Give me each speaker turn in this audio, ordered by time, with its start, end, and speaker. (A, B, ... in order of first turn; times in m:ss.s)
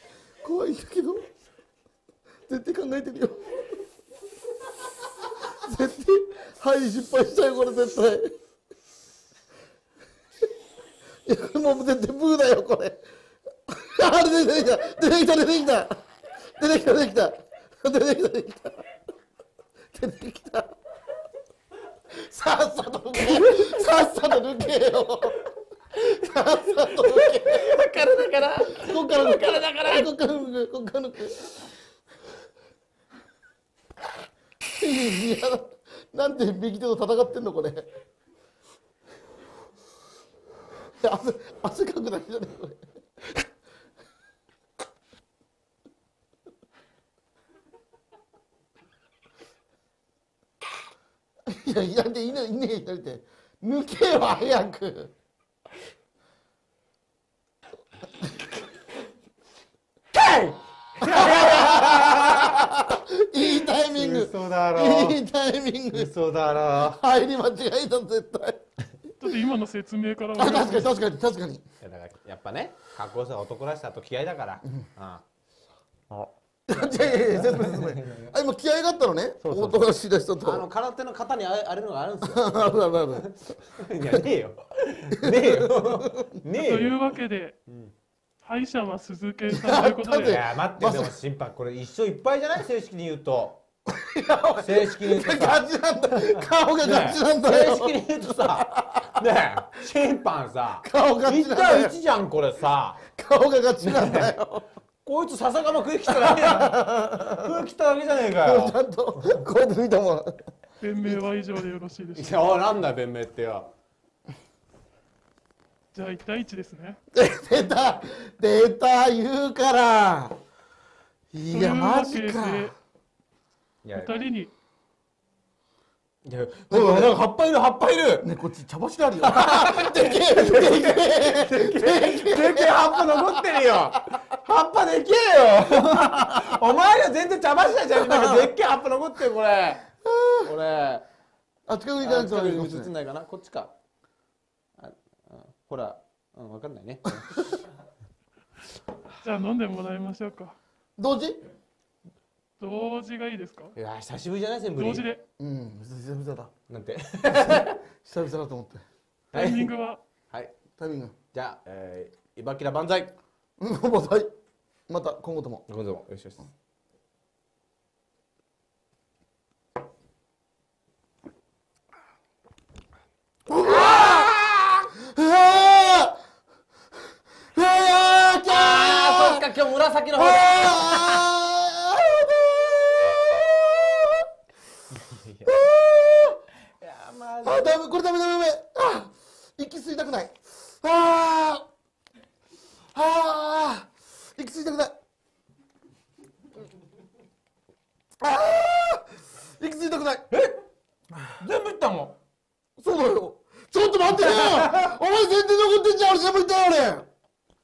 0:00.4-0:01.3 A
0:02.5-0:03.6 A
0:05.6-0:08.4 A
0:11.3-0:13.0 A
0:13.7-0:16.0 A
0:16.6-0:18.8 A
0:19.9-0:20.8 A
0:22.1-0:25.5 A
0:23.3-0:23.7 B
0:26.0-0:27.8 A
0:26.7-0:30.1 B
0:28.8-0:31.5 A
0:34.7-0:37.9 A
0:41.0-0:43.4 A
0:51.5-0:55.1 A
1:00.1-1:02.7 B
1:01.0-1:06.1 A
1:03.9-1:05.2 B
1:05.9-1:07.0 B
1:06.8-1:08.6 A
1:09.2-1:10.9 C
1:10.4-1:11.6 A
1:11.8-1:15.2 B
1:16.1-1:18.3 B
1:16.7-1:20.6 A
1:19.4-1:27.0 B
1:22.2-1:23.3 A
1:25.2-1:26.4 A
1:26.6-1:27.6 C
1:27.7-1:27.9 B
1:28.4-1:30.4 C
1:29.5-1:31.1 A
1:30.2-1:33.6 B
1:33.9-1:39.2 A
1:34.6-1:35.6 B
1:36.2-1:43.0 B
1:40.8-1:42.0 A
1:43.1-1:44.6 A
1:43.8-1:44.4 B
1:45.0-1:48.8 B
1:46.2-1:47.5 A
1:48.4-1:50.5 A
1:50.8-1:52.3 C
1:52.1-1:53.7 B
1:55.9-1:57.0 C
1:57.2-2:00.4 A
2:01.3-2:02.7 A
2:01.5-2:02.7 C
2:03.8-2:04.3 B
2:04.0-2:04.5 C
2:06.2-2:08.3 B
2:06.7-2:07.2 A
2:08.2-2:14.2 A
2:09.2-2:19.9 B
2:18.0-2:18.5 A
2:20.0-2:20.5 A
2:20.4-2:21.0 B
2:21.7-2:22.9 A
2:22.0-2:23.7 B
2:24.8-2:27.6 B
2:29.2-2:30.6 C
2:31.0-2:31.4 A
2:32.6-2:33.8 C
2:33.8-2:35.1 B
2:34.8-2:35.2 C
2:35.4-2:36.5 A
2:36.7-2:37.8 B
2:37.4-2:38.8 A
2:39.3-2:39.7 B
2:39.3-2:40.0 C
2:40.8-2:41.2 A
2:41.3-2:43.2 B
2:43.6-2:44.3 A
2:44.9-2:45.6 A
2:45.7-2:46.5 B
2:53.5-2:54.3 A
2:53.6-2:54.9 B
2:55.0-2:56.2 A
2:57.5-2:59.5 A
2:58.5-3:01.3 B
3:00.2-3:04.3 A
3:04.9-3:05.7 B
3:05.5-3:06.4 A
3:06.8-3:07.8 B
3:07.4-3:11.7 A
3:12.9-3:15.0 A
3:18.2-3:20.3 A
3:20.3-3:20.6 B
3:21.4-3:22.2 B
3:22.8-3:27.1 A
3:24.1-3:25.0 B